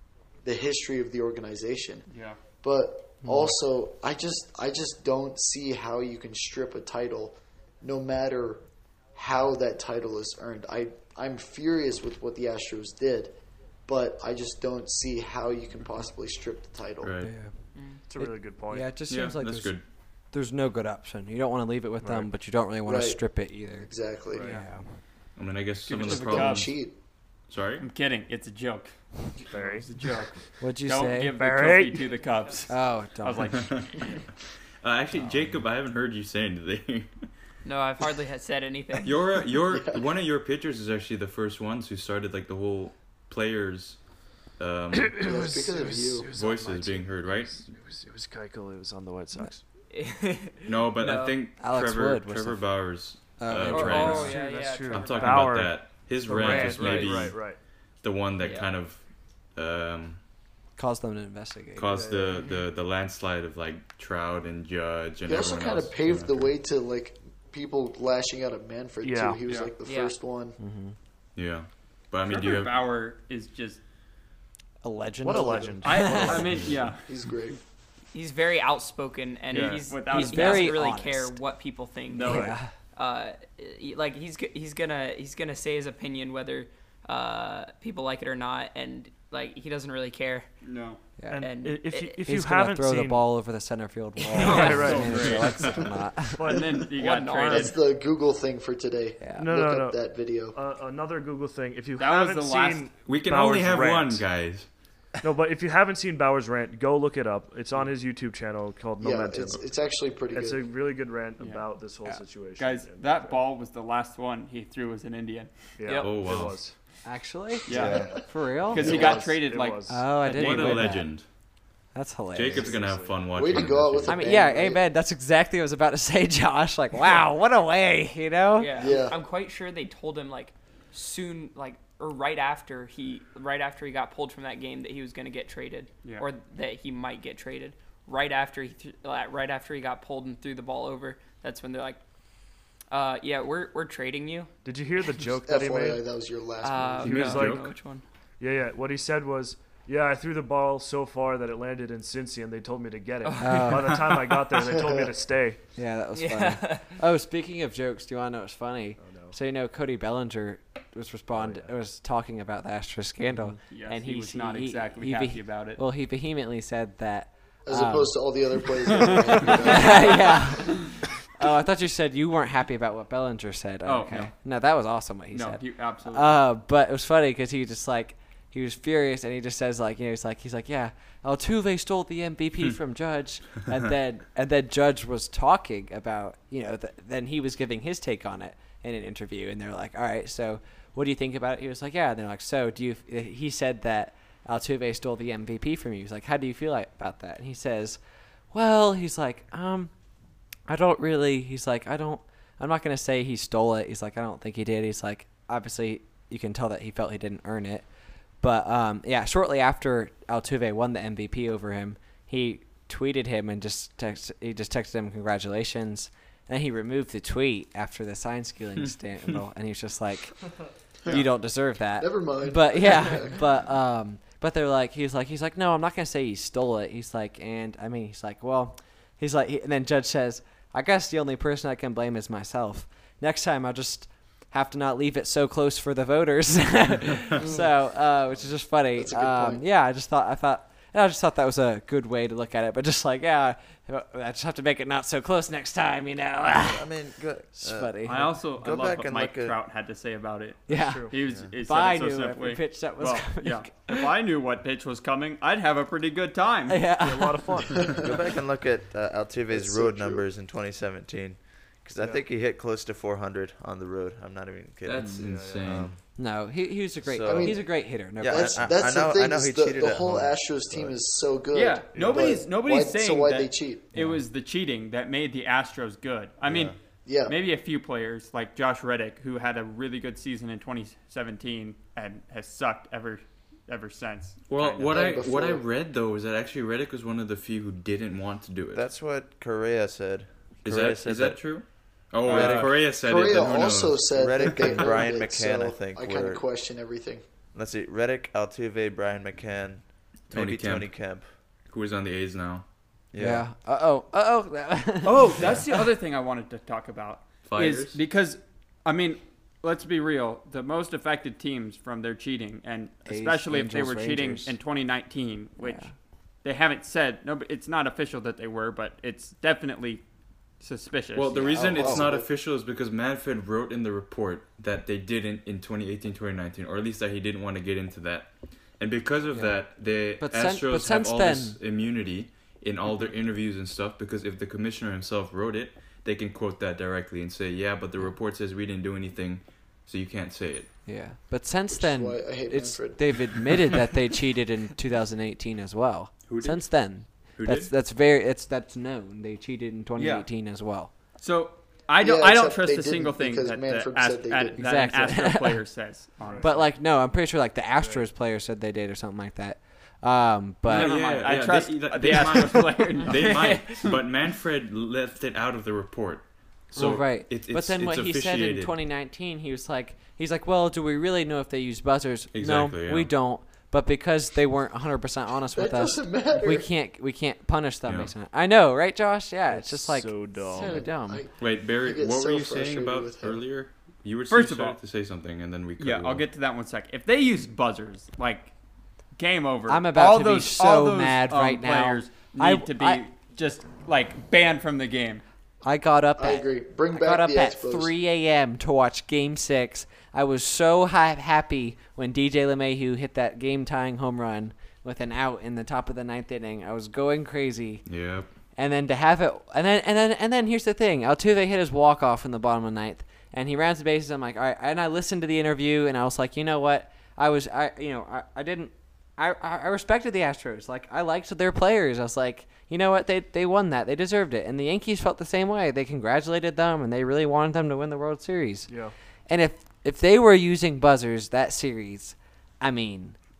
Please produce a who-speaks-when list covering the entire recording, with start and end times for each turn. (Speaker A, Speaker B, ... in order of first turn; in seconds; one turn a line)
Speaker A: 0.4-2.1
Speaker B: 2.1-2.4
Speaker A: 2.6-8.6
Speaker C: 3.2-3.6
Speaker A: 9.1-17.1
Speaker D: 17.0-17.3
Speaker C: 17.2-17.5
Speaker E: 17.7-18.0
Speaker F: 18.1-18.9
Speaker C: 18.2-19.8
Speaker D: 19.1-19.8
Speaker C: 20.3-24.8
Speaker F: 22.0-22.3
Speaker A: 22.9-23.2
Speaker A: 23.8-24.5
Speaker F: 24.3-24.6
Speaker D: 25.4-26.8
Speaker B: 25.9-26.7
Speaker A: 26.0-26.9
Speaker D: 27.5-27.8
Speaker B: 27.8-28.9
Speaker B: 29.5-33.8
Speaker F: 29.5-29.9
Speaker C: 30.6-31.3
Speaker F: 31.3-32.1
Speaker C: 32.7-33.8
Speaker D: 33.6-34.1
Speaker D: 34.8-37.1
Speaker E: 37.6-39.2
Speaker D: 39.0-44.0
Speaker A: 39.7-40.0
Speaker D: 44.6-45.2
Speaker F: 44.9-49.6
Speaker A: 45.2-46.3
Speaker D: 46.3-47.7
Speaker E: 49.9-51.4
Speaker D: 50.6-59.0
Speaker C: 51.6-52.6
Speaker C: 53.4-54.4
Speaker E: 53.7-55.5
Speaker F: 53.7-57.6
Speaker E: 58.4-58.7
Speaker D: 59.5-60.2
Speaker C: 60.8-62.0
Speaker D: 61.8-66.5
Speaker F: 61.9-62.5
Speaker A: 65.3-70.6
Speaker F: 69.0-69.4
Speaker B: 69.5-69.7
Speaker E: 69.8-70.2
Speaker C: 70.6-70.9
Speaker D: 71.3-72.8
Speaker B: 72.2-73.8
Speaker C: 74.8-76.6
Speaker F: 75.2-76.8
Speaker B: 75.8-77.0
Speaker A: 77.0-77.6
Speaker E: 78.1-90.5
Speaker F: 79.5-80.0
Speaker B: 79.5-80.8
Speaker C: 80.1-81.4
Speaker B: 82.1-82.5
Speaker C: 82.2-82.7
Speaker F: 82.3-82.5
Speaker B: 90.6-91.0
Speaker C: 91.2-91.5
Speaker F: 91.3-93.2
Speaker E: 91.3-92.2
Speaker C: 92.2-96.5
Speaker E: 94.3-94.8
Speaker F: 94.4-95.5
Speaker B: 94.4-95.5
Speaker D: 95.3-95.7
Speaker F: 96.3-96.9
Speaker B: 96.4-97.7
Speaker E: 96.9-97.8
Speaker A: 97.5-100.6
Speaker C: 99.2-99.5
Speaker F: 99.3-100.0
Speaker F: 100.5-104.2
Speaker B: 102.0-102.9
Speaker D: 103.0-104.7
Speaker F: 105.2-109.7
Speaker A: 109.0-110.7
Speaker F: 110.3-113.5
Speaker B: 112.6-115.5
Speaker F: 115.8-116.7
Speaker E: 115.8-116.3
Speaker D: 116.0-116.6
Speaker C: 117.0-119.2
Speaker B: 117.7-120.8
Speaker A: 117.7-118.2
Speaker F: 117.8-118.1
Speaker F: 118.7-120.1
Speaker A: 118.8-119.2
Speaker C: 119.9-121.1
Speaker D: 120.3-121.2
Speaker C: 121.9-122.8
Speaker D: 122.3-124.3
Speaker F: 122.5-123.6
Speaker A: 123.3-124.8
Speaker C: 124.1-128.8
Speaker E: 128.6-142.0
Speaker A: 128.8-129.2
Speaker B: 136.0-136.3
Speaker E: 142.9-144.5
Speaker F: 144.6-146.0
Speaker A: 145.4-147.4
Speaker E: 146.6-148.0
Speaker F: 147.0-147.7
Speaker D: 147.0-147.7
Speaker F: 148.4-155.6
Speaker E: 153.2-154.1
Speaker C: 153.4-154.0
Speaker A: 154.6-155.1
Speaker C: 155.8-168.2
Speaker E: 156.1-156.9
Speaker F: 159.0-159.3
Speaker F: 161.3-161.7
Speaker B: 163.7-165.8
Speaker A: 167.7-170.7
Speaker C: 169.3-198.0
Speaker B: 173.8-174.3
Speaker B: 175.3-176.4
Speaker C: 198.5-199.9
Speaker C: 200.7-207.8
Speaker C: 208.4-220.4
Speaker C: 221.1-247.0
Speaker A: 222.0-223.4
Speaker A: 237.4-237.6
Speaker A: 238.9-239.6
Speaker G: 246.6-249.6
Speaker C: 247.5-248.3
Speaker B: 248.0-256.8
Speaker C: 250.7-254.1
Speaker F: 250.7-251.2
Speaker G: 251.3-251.5
Speaker C: 256.7-257.8
Speaker F: 257.0-257.9
Speaker A: 257.8-258.2
Speaker G: 258.0-265.9
Speaker A: 259.5-260.3
Speaker F: 262.0-262.2
Speaker D: 264.8-265.9
Speaker F: 265.0-265.8
Speaker C: 266.2-268.8
Speaker G: 267.0-270.9
Speaker A: 267.2-267.6
Speaker A: 268.2-273.9
Speaker B: 271.5-276.7
Speaker F: 271.9-272.4
Speaker C: 273.9-274.2
Speaker G: 276.4-276.8
Speaker A: 277.0-277.4
Speaker B: 277.2-284.8
Speaker D: 284.5-288.8
Speaker A: 284.7-285.6
Speaker G: 288.7-291.6
Speaker D: 290.6-294.9
Speaker G: 292.2-292.9
Speaker A: 292.3-297.2
Speaker G: 294.1-296.4
Speaker G: 297.5-301.3
Speaker D: 300.3-302.6
Speaker G: 303.1-303.4
Speaker C: 303.2-305.6
Speaker B: 305.0-315.9
Speaker D: 307.4-308.0
Speaker C: 313.1-314.6
Speaker C: 315.6-315.9
Speaker B: 316.4-320.0
Speaker B: 320.6-321.8
Speaker D: 321.1-340.7
Speaker A: 321.6-322.3
Speaker C: 321.6-322.1
Speaker C: 329.3-329.6
Speaker C: 330.2-331.6
Speaker C: 340.9-350.9
Speaker A: 341.7-343.8
Speaker D: 346.2-347.7
Speaker B: 350.0-350.2
Speaker B: 351.2-356.7
Speaker A: 352.0-354.6
Speaker C: 354.6-355.6
Speaker F: 356.2-356.5
Speaker C: 356.4-360.9
Speaker F: 357.8-358.0
Speaker B: 360.6-364.0
Speaker D: 360.7-368.8
Speaker E: 363.0-363.6
Speaker C: 366.7-381.2
Speaker D: 372.3-373.1
Speaker A: 375.5-376.7
Speaker D: 377.9-378.1
Speaker F: 379.5-380.8
Speaker A: 380.6-383.4
Speaker D: 381.4-386.2
Speaker B: 384.3-384.8
Speaker B: 385.8-388.5
Speaker B: 389.1-395.2
Speaker C: 389.7-393.0
Speaker C: 395.6-407.8
Speaker A: 396.2-397.9
Speaker D: 407.9-408.3
Speaker C: 408.6-428.7
Speaker F: 428.7-428.9
Speaker C: 429.3-433.2